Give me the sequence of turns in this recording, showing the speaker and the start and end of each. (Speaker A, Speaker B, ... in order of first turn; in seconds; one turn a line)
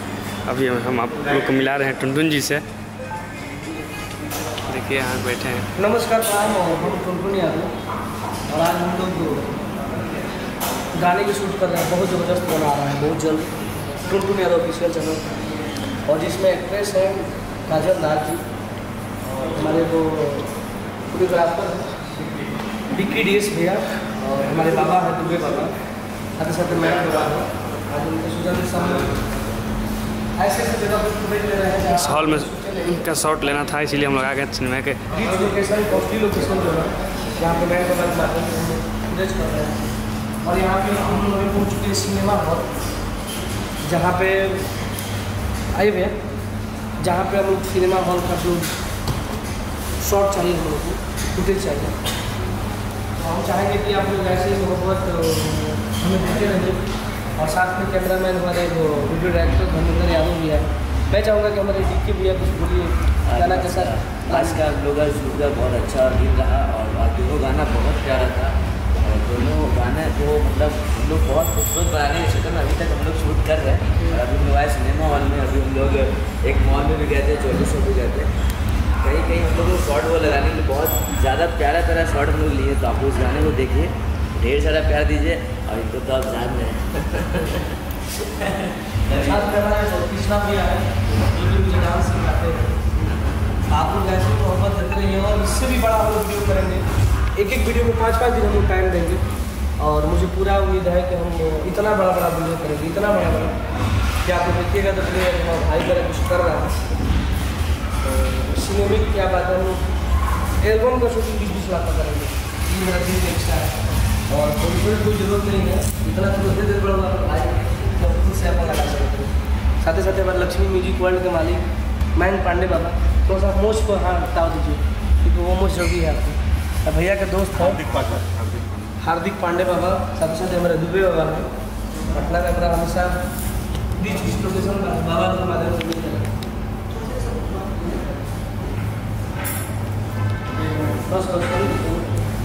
Speaker A: 0.5-2.6
Speaker A: 4.6-5.7
Speaker B: 5.8-7.7
Speaker B: 8.5-9.5
Speaker B: 10.9-13.5
Speaker B: 14.0-15.2
Speaker B: 16.1-18.4
Speaker B: 19.4-20.5
Speaker B: 21.1-21.9
Speaker B: 22.9-25.7
Speaker B: 26.4-29.2
Speaker B: 30.4-33.0
Speaker A: 32.0-35.2
Speaker B: 35.1-39.8
Speaker B: 40.4-42.7
Speaker B: 43.8-44.6
Speaker B: 45.7-46.1
Speaker B: 47.0-48.7
Speaker B: 50.0-51.9
Speaker B: 53.1-56.9
Speaker B: 57.4-64.6
Speaker C: 63.3-78.3
Speaker C: 79.0-87.7
Speaker C: 88.9-89.5
Speaker B: 89.1-92.8
Speaker B: 93.6-99.2
Speaker B: 99.8-103.6
Speaker B: 104.2-106.8
Speaker B: 108.0-109.8
Speaker B: 110.6-121.6
Speaker B: 122.1-128.2
Speaker B: 129.0-131.5
Speaker B: 132.1-133.2
Speaker B: 134.0-136.3
Speaker B: 136.9-138.0
Speaker B: 140.6-142.1